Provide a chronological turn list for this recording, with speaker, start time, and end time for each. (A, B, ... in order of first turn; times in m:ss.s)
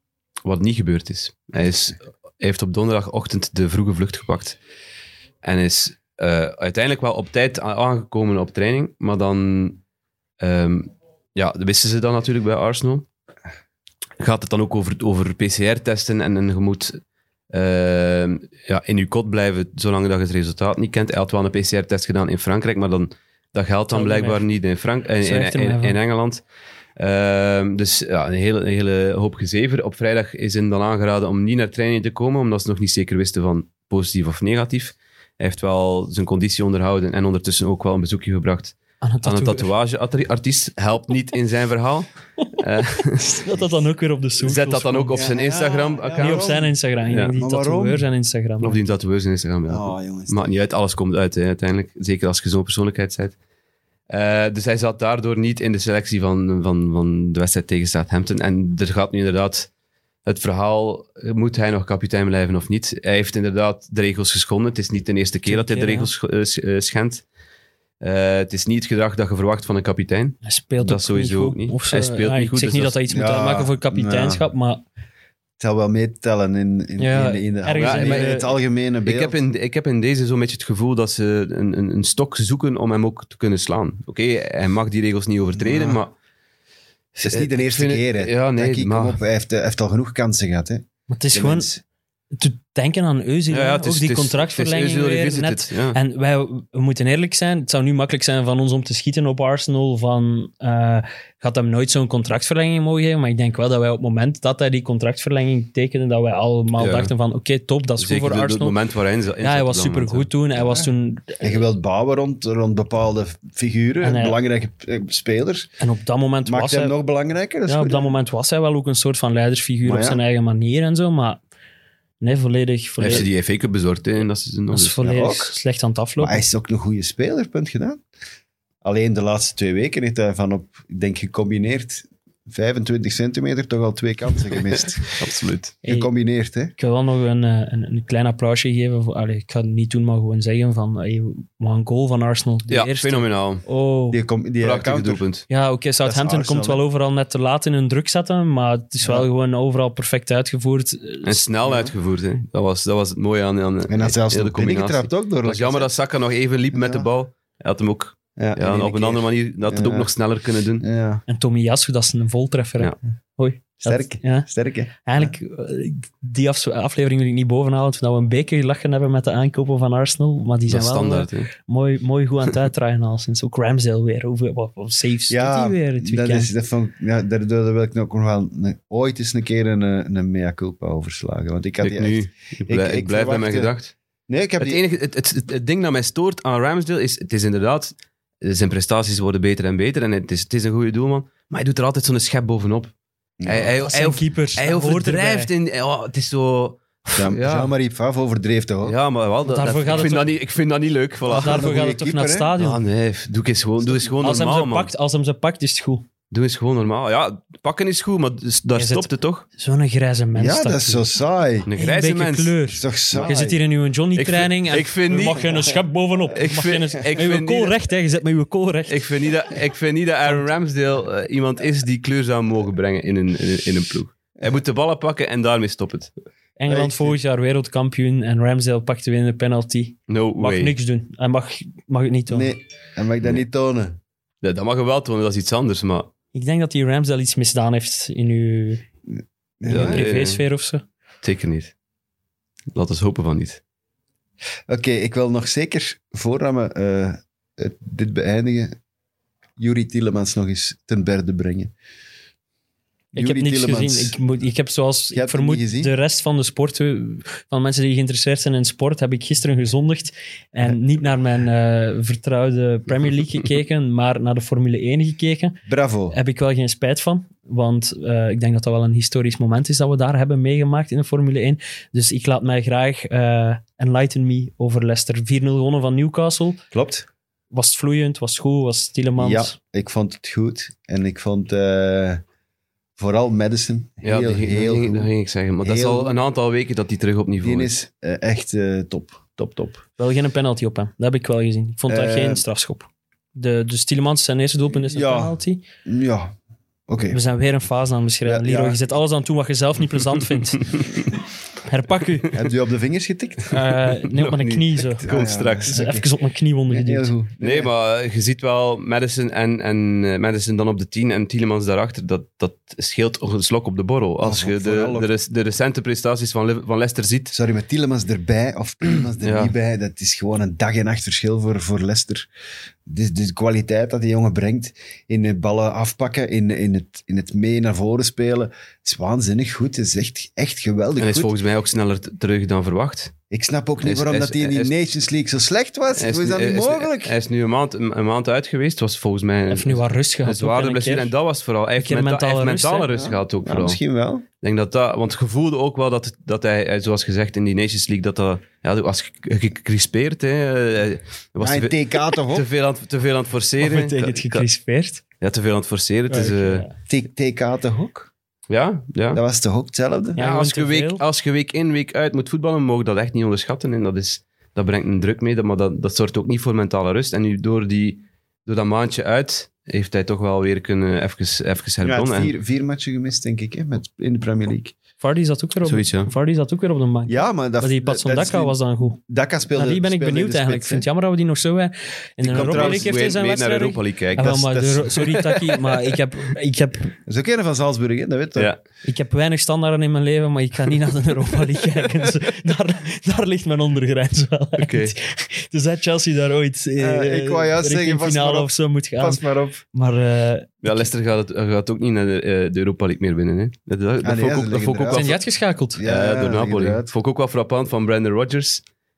0:00.4-0:04.6 A
0:05.4-0:09.8 A
0:10.4-0:13.1 A
0:14.2-0:17.0 A
0:17.5-0:26.4 A
0:23.9-0:24.4 B
0:25.2-0:26.0 B
0:27.0-0:43.4 A
0:39.0-0:39.7 B
0:43.2-0:45.2 B
0:44.4-0:47.3 A
0:45.2-0:46.7 C
0:46.2-0:48.8 B
0:47.3-0:48.0 C
0:48.6-0:53.4 A
0:49.7-0:50.5 C
0:54.1-0:59.7 A
1:00.2-1:07.2 A
1:05.5-1:06.1 B
1:08.0-1:13.0 A
1:10.4-1:14.8 B
1:13.1-1:14.4 C
1:15.6-1:19.4 C
1:17.0-1:18.5 B
1:17.8-1:18.4 A
1:19.0-1:26.1 A
1:25.7-1:26.0 C
1:27.2-1:29.2 A
1:27.2-1:31.8 C
1:31.1-1:31.7 B
1:32.3-1:48.8 B
1:33.5-1:36.0 A
1:46.8-1:47.1 A
1:48.0-1:50.3 A
1:49.4-1:51.6 B
1:50.6-1:50.9 C
1:51.4-1:55.7 C
1:54.0-1:54.4 B
1:55.8-1:57.0 B
1:56.5-1:58.1 C
1:57.7-2:01.4 B
1:59.8-2:00.2 C
2:02.2-2:03.3 B
2:03.0-2:05.0 A
2:04.7-2:06.4 B
2:05.0-2:05.5 C
2:06.2-2:08.0 C
2:08.8-2:15.1 C
2:15.0-2:15.7 A
2:15.8-2:16.1 B
2:15.8-2:16.7 C
2:16.8-2:24.2 B
2:22.7-2:23.6 A
2:24.1-2:25.2 C
2:24.6-2:25.5 A
2:25.5-2:31.5 B
2:26.0-2:26.8 C
2:29.0-2:29.3 C
2:31.2-2:40.8 A
2:33.9-2:36.0 C
2:36.7-2:37.1 C
2:38.4-2:40.1 C
2:40.8-2:41.2 C
2:41.3-2:44.5 B
2:43.8-2:45.3 C
2:45.0-2:56.5 B
2:50.7-2:51.5 A
2:55.3-3:03.7 C
3:01.8-3:03.9 A
3:04.3-3:04.8 C
3:04.6-3:12.9 A
3:13.4-3:13.8 C
3:13.4-3:17.7 A
3:13.8-3:15.5 B
3:17.2-3:19.0 C
3:18.8-3:21.7 A
3:19.5-3:20.3 B
3:21.3-3:22.5 C
3:21.3-3:22.8 B
3:22.6-3:24.9 A
3:24.2-3:26.1 B
3:26.3-3:29.4 A
3:28.8-3:31.1 B
3:30.4-3:31.7 C
3:31.7-3:32.6 A
3:31.8-3:39.0 B
3:32.7-3:33.6 C
3:34.2-3:35.5 A
3:36.3-3:37.7 A
3:38.9-3:46.1 A
3:46.6-3:52.6 B
3:46.7-3:47.2 C
3:50.1-3:50.8 A
3:52.3-3:54.0 C
3:54.4-3:56.1 A
3:56.3-3:58.8 B
3:59.6-4:00.0 C
3:59.7-4:00.4 A
3:59.7-4:00.8 B
4:01.2-4:01.7 A
4:02.7-4:03.6 A
4:04.7-4:08.8 C
4:09.6-4:11.7 C
4:13.1-4:25.6 B
4:13.2-4:14.2 C
4:15.1-4:15.9 C
4:25.7-4:26.2 C
4:26.1-4:36.6 B
4:36.7-4:37.1 C
4:37.5-4:39.6 B
4:39.2-4:42.2 C
4:43.0-4:45.1 C
4:44.0-4:47.7 A
4:45.6-4:46.2 C
4:47.4-4:49.8 C
4:50.0-4:55.6 B
4:51.9-4:52.4 C
4:54.8-4:56.4 C
4:56.9-4:57.2 C
4:57.1-5:00.9 B
4:58.2-4:58.8 C
5:01.6-5:02.4 B
5:02.3-5:03.6 C
5:03.5-5:05.1 B
5:04.0-5:05.8 A
5:05.0-5:06.1 C
5:05.7-5:07.1 B
5:06.7-5:07.7 C
5:07.4-5:17.3 A
5:14.2-5:15.1 C
5:17.3-5:22.3 C
5:19.2-5:19.5 A
5:22.9-5:31.3 C
5:31.0-5:33.1 A
5:33.3-5:37.2 C
5:33.8-5:34.7 A
5:36.0-5:43.8 A
5:39.5-5:41.1 B
5:41.8-5:42.9 B
5:42.9-5:44.2 C
5:44.4-5:54.5 A
5:51.4-5:52.5 C
5:53.6-5:55.0 B
5:55.2-5:56.6 A
5:56.1-5:56.7 B
5:56.9-5:58.1 C
5:58.5-5:59.2 A
5:59.1-6:00.2 C
6:00.2-6:01.0 B
6:00.2-6:12.3 A
6:11.8-6:14.7 C
6:15.0-6:19.0 B
6:15.6-6:16.1 A
6:17.1-6:20.9 C
6:19.5-6:27.0 B
6:22.2-6:22.9 C
6:22.2-6:24.4 A
6:24.2-6:25.0 C
6:25.0-6:25.6 A
6:27.1-6:28.5 C
6:28.8-6:40.6 B
6:34.6-6:34.9 A
6:36.8-6:39.6 C
6:40.6-6:45.2 A
6:44.0-6:45.2 C
6:44.9-6:45.8 B
6:45.8-6:46.9 C
6:45.8-6:48.6 A